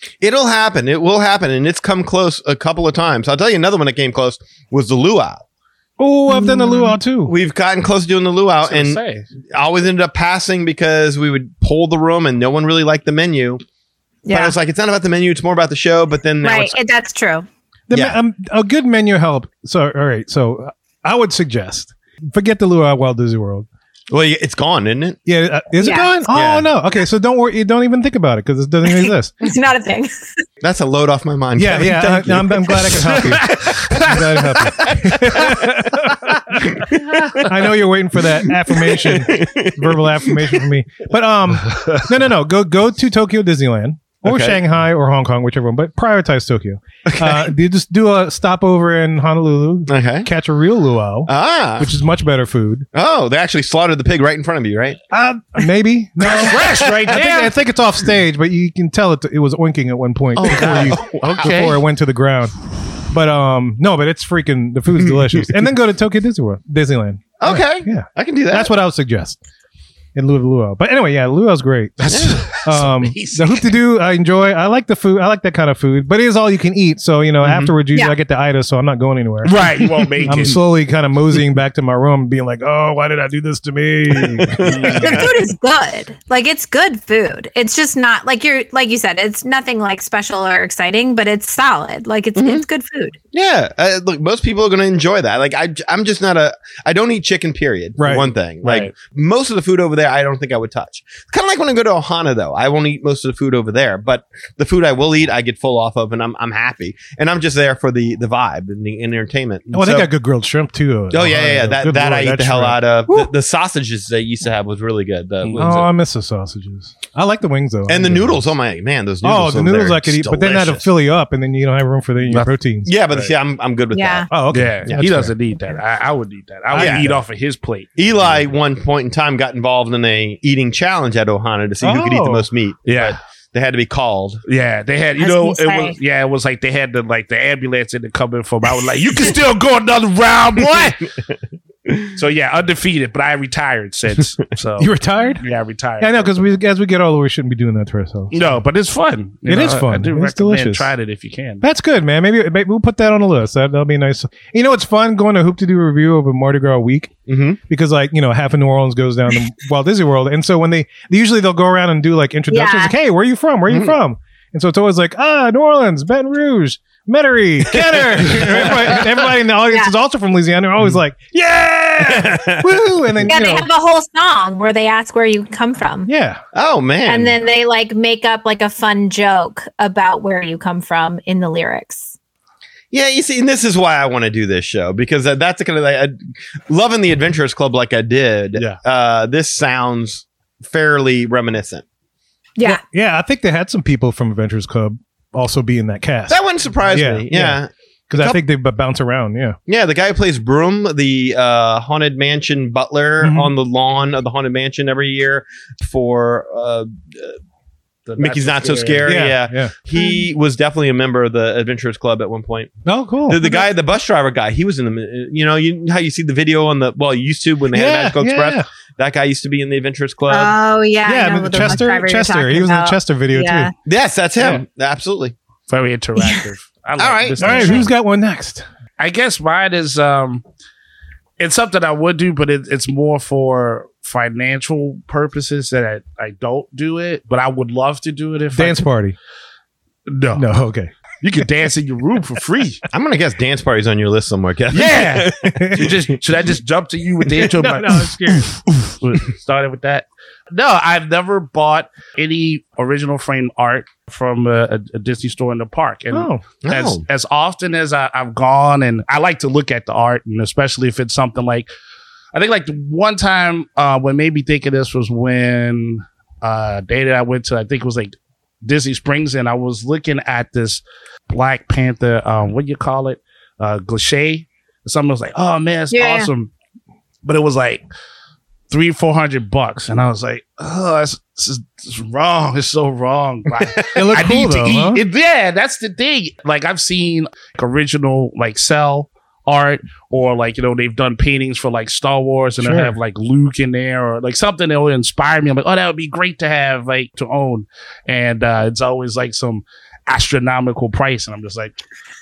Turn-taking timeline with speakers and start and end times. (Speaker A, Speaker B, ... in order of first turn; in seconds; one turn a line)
Speaker A: 0.2-5.4
Speaker B: 6.0-7.3
Speaker C: 6.3-7.0
Speaker A: 7.3-13.6
Speaker D: 8.6-9.2
Speaker C: 14.3-14.6
Speaker A: 14.3-16.8
Speaker C: 16.4-17.5
Speaker B: 17.9-23.7
Speaker A: 17.9-18.2
Speaker A: 24.1-25.2
Speaker B: 25.3-29.3
Speaker C: 25.8-26.1
Speaker A: 26.3-26.7
Speaker C: 28.9-30.3
Speaker A: 30.6-33.4
Speaker B: 31.6-36.9
Speaker D: 32.9-34.9
Speaker A: 35.0-35.6
Speaker A: 36.7-37.4
Speaker B: 37.4-52.9
Speaker A: 38.2-40.7
Speaker A: 44.2-44.6
Speaker A: 47.1-47.5
Speaker A: 49.9-50.3
Speaker A: 51.3-51.9
Speaker A: 52.9-55.0
Speaker B: 55.1-69.4
Speaker D: 56.2-57.5
Speaker A: 56.5-57.1
Speaker A: 60.4-61.5
Speaker D: 60.4-61.8
Speaker A: 65.0-65.5
Speaker A: 67.4-68.7
Speaker B: 70.2-79.6
Speaker D: 72.0-73.7
Speaker A: 72.1-72.4
Speaker A: 77.4-77.7
Speaker D: 79.4-80.6
Speaker B: 80.2-85.2
Speaker A: 84.1-85.3
Speaker D: 84.7-85.1
Speaker C: 85.0-93.2
Speaker A: 92.4-92.6
Speaker A: 93.3-110.1
Speaker B: 98.0-98.3
Speaker D: 98.6-98.9
Speaker B: 109.7-113.3
Speaker A: 111.1-115.9
Speaker B: 115.5-118.4
Speaker A: 117.9-120.9
Speaker B: 119.2-122.9
Speaker A: 122.8-124.3
Speaker C: 123.9-124.3
Speaker B: 124.3-125.3
Speaker D: 124.5-128.1
Speaker A: 124.9-125.3
Speaker B: 126.7-127.1
Speaker A: 126.7-127.2
Speaker A: 128.0-134.4
Speaker B: 131.8-132.5
Speaker D: 132.9-133.2
Speaker D: 134.5-141.1
Speaker C: 135.2-136.0
Speaker A: 141.9-142.1
Speaker D: 142.2-146.3
Speaker B: 144.8-145.4
Speaker B: 146.0-148.6
Speaker D: 148.3-151.6
Speaker B: 149.5-150.9
Speaker B: 151.6-157.1
Speaker A: 157.3-157.6
Speaker B: 157.7-173.7
Speaker C: 162.5-162.9
Speaker A: 163.7-164.0
Speaker A: 167.7-169.3
Speaker A: 172.0-173.3
Speaker C: 173.2-176.1
Speaker B: 176.1-176.4
Speaker A: 176.5-177.4
Speaker C: 177.1-182.1
Speaker A: 182.9-191.8
Speaker B: 192.7-196.4
Speaker A: 196.3-198.4
Speaker B: 196.9-197.6
Speaker B: 198.1-199.6
Speaker A: 199.7-207.4
Speaker B: 203.2-203.5
Speaker D: 208.1-209.2
Speaker A: 208.2-212.7
Speaker B: 209.1-209.7
Speaker C: 210.0-210.2
Speaker B: 212.9-213.4
Speaker A: 213.3-220.6
Speaker B: 217.7-218.7
Speaker C: 220.3-223.7
Speaker B: 221.1-223.7
Speaker A: 223.9-225.3
Speaker D: 225.7-227.9
Speaker A: 227.0-227.8
Speaker B: 227.4-228.7
Speaker D: 229.0-230.4
Speaker D: 231.4-238.9
Speaker B: 238.5-239.2
Speaker D: 240.1-240.4
Speaker B: 240.4-240.9
Speaker D: 241.2-242.8
Speaker A: 242.9-246.2
Speaker D: 244.7-261.7
Speaker B: 245.4-245.9
Speaker B: 247.5-248.6
Speaker B: 256.1-256.4
Speaker A: 256.6-257.0
Speaker D: 262.3-276.5
Speaker C: 275.9-276.3
Speaker D: 277.2-277.8
Speaker D: 278.7-301.8
Speaker A: 283.6-283.9
Speaker B: 283.9-285.0
Speaker B: 292.6-293.0